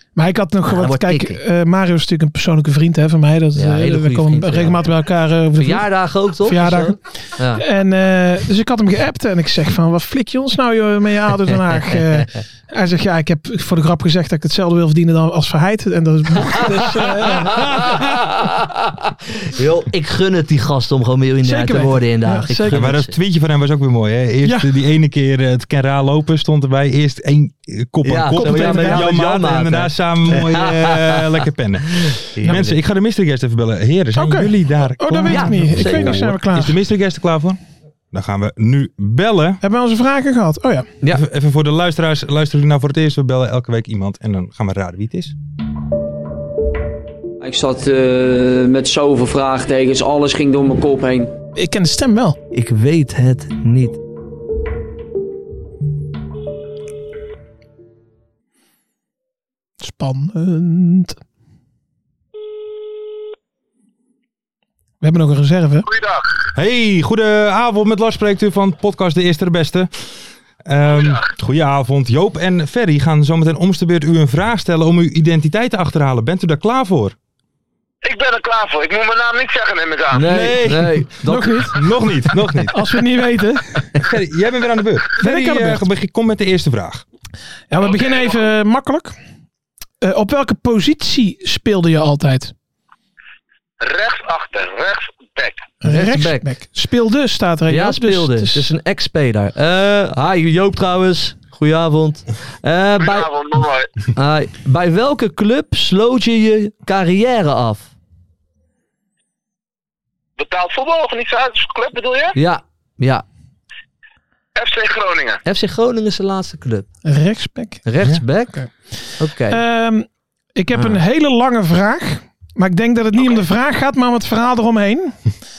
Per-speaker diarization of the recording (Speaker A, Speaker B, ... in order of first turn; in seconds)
Speaker A: 0.1-7.0, 7.5-18.0, 21.4-22.9, 28.4-29.1, 34.1-36.8, 39.6-40.9, 51.5-52.4, 59.8-61.2, 65.0-65.8, 81.2-81.8, 82.7-83.9, 85.2-85.8, 87.7-89.2, 90.0-92.5, 95.8-98.7, 117.0-117.8, 119.5-125.2
Speaker B: 0.7-1.4, 3.5-4.8, 5.6-7.6, 11.9-12.4, 17.2-23.1, 28.0-31.4, 32.3-32.8, 35.3-36.2, 52.5-54.0, 80.1-81.7, 95.8-96.5, 97.7-103.3, 104.1-107.9, 112.3-113.2, 115.4-116.9, 117.8-118.6, 119.2-119.6, 120.7-121.0
Speaker C: 22.7-37.6, 38.1-39.6, 41.1-45.3, 66.5-69.9, 70.6-77.1, 80.2-81.1, 81.7-82.8, 84.0-87.0
Speaker D: 47.4-51.3
Speaker E: 65.8-66.3, 70.9-71.3, 78.0-80.4, 87.8-88.5, 93.8-95.7, 103.0-103.9, 110.4-112.3, 114.5-115.4